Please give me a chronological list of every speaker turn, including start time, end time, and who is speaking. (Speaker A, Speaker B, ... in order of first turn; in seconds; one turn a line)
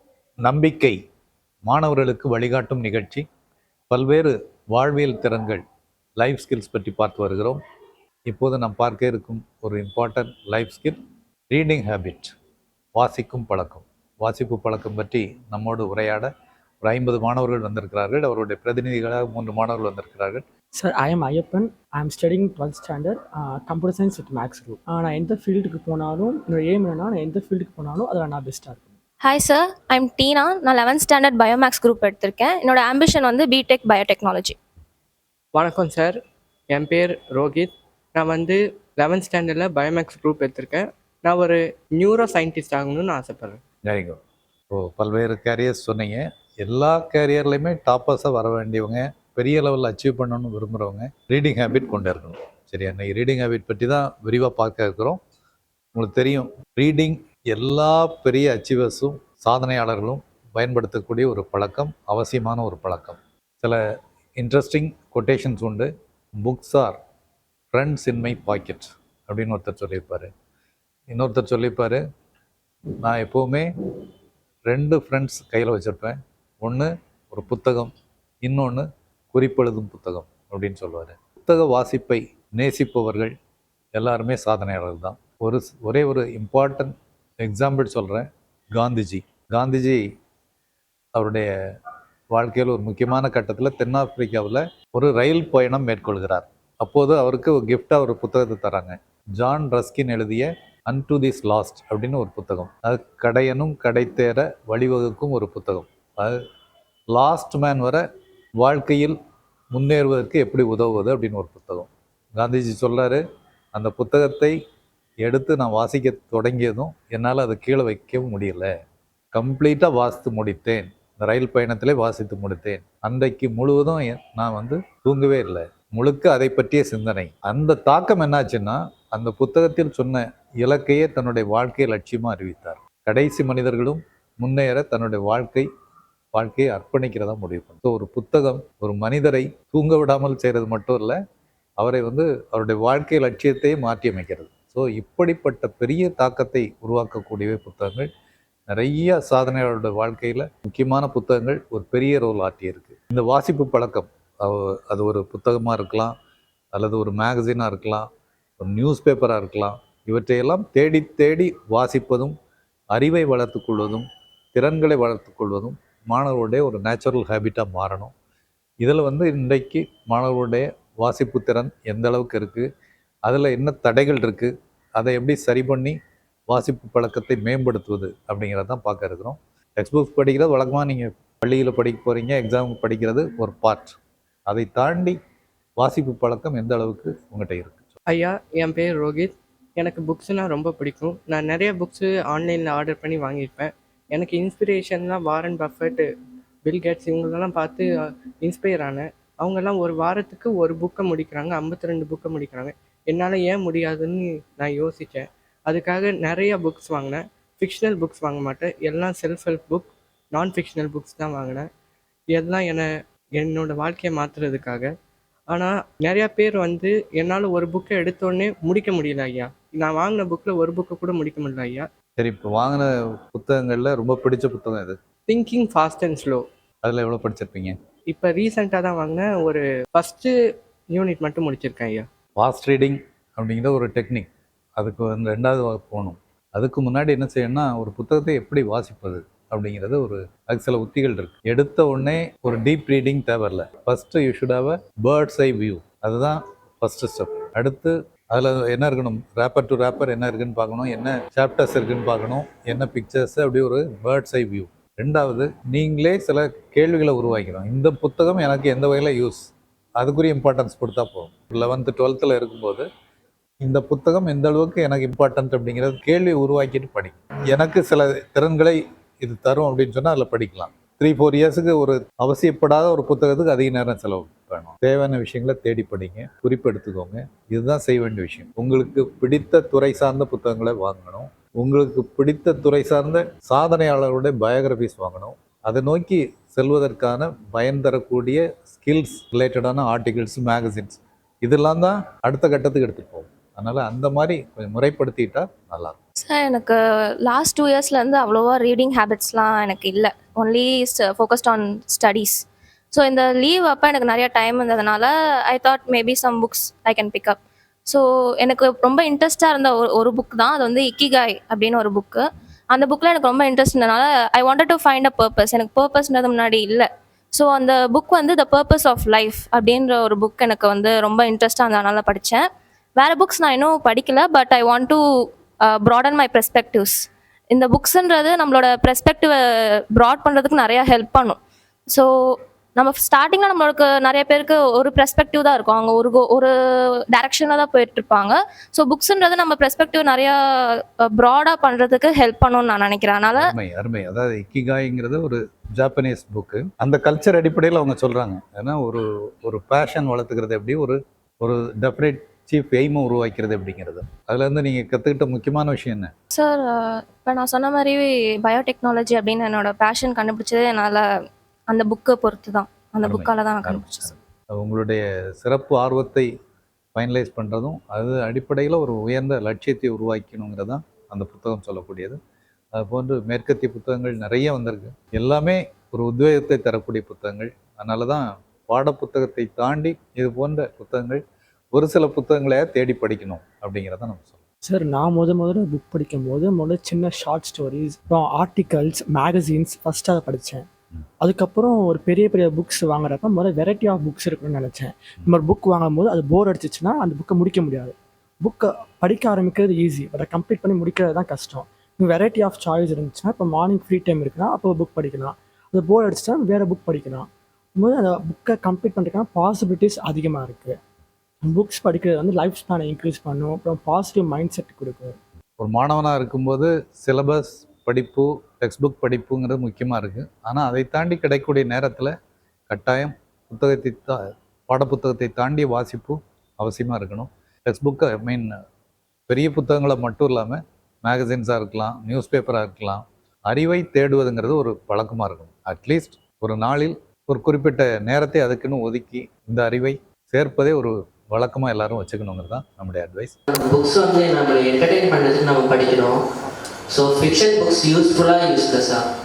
Speaker A: 0.4-0.9
Speaker A: 1.7-3.2
Speaker A: 3.9-5.6
Speaker A: 6.2-7.6
Speaker A: 8.3-11.0
Speaker A: 11.5-12.3
Speaker A: 13.0-16.3
Speaker A: 16.8-20.4
Speaker B: 20.8-28.9
Speaker C: 29.2-34.5
Speaker D: 35.5-36.1
Speaker D: 36.7-43.6
Speaker A: 43.9-44.2
Speaker A: 44.7-55.2
Speaker A: 55.9-63.8
Speaker A: 64.4-65.9
Speaker A: 66.4-67.0
Speaker A: 67.7-70.3
Speaker A: 71.1-72.0
Speaker A: 73.0-73.7
Speaker A: 74.7-77.9
Speaker A: 78.4-83.3
Speaker A: 83.9-90.0
Speaker A: 91.1-91.5
Speaker A: 92.3-106.4
Speaker A: 107.1-108.0
Speaker A: 108.6-109.2
Speaker A: 109.7-113.2
Speaker A: 113.7-114.5
Speaker A: 115.2-118.7
Speaker A: 119.3-135.7
Speaker A: 136.3-141.2
Speaker A: 141.8-148.1
Speaker A: 148.7-156.1
Speaker A: 156.7-158.1
Speaker A: 158.6-162.3
Speaker A: 162.9-168.1
Speaker A: 168.8-172.7
Speaker A: 173.3-175.9
Speaker A: 176.5-183.9
Speaker A: 184.5-185.2
Speaker A: 185.8-187.9
Speaker D: 188.1-196.1
Speaker D: 196.6-197.9
Speaker D: 198.4-211.7
Speaker D: 212.3-212.9
Speaker D: 213.4-214.9
Speaker D: 215.5-221.9
Speaker A: 222.2-225.0
Speaker D: 225.3-226.4
Speaker A: 226.8-227.7
Speaker D: 228.1-230.3
Speaker D: 230.9-232.1
Speaker A: 232.4-259.4
Speaker A: 260.0-262.9
Speaker A: 263.6-296.0
Speaker C: 296.2-302.4
Speaker C: 302.9-322.4
Speaker C: 323.0-325.0
Speaker C: 325.7-327.0
Speaker C: 327.5-329.4
Speaker C: 329.9-331.4
Speaker C: 332.8-336.5
Speaker C: 337.1-343.5
Speaker A: 343.3-356.1
Speaker C: 356.3-361.0
Speaker C: 361.7-364.2
Speaker A: 363.0-366.3
Speaker A: 366.9-372.2
Speaker A: 372.7-381.2
Speaker A: 381.7-384.4
Speaker B: 384.6-390.6
Speaker B: 391.2-410.8
Speaker B: 411.4-415.2
Speaker A: 415.6-422.1
Speaker A: 422.7-428.5
Speaker A: 429.3-443.4
Speaker E: 443.5-446.2
Speaker E: 446.9-449.0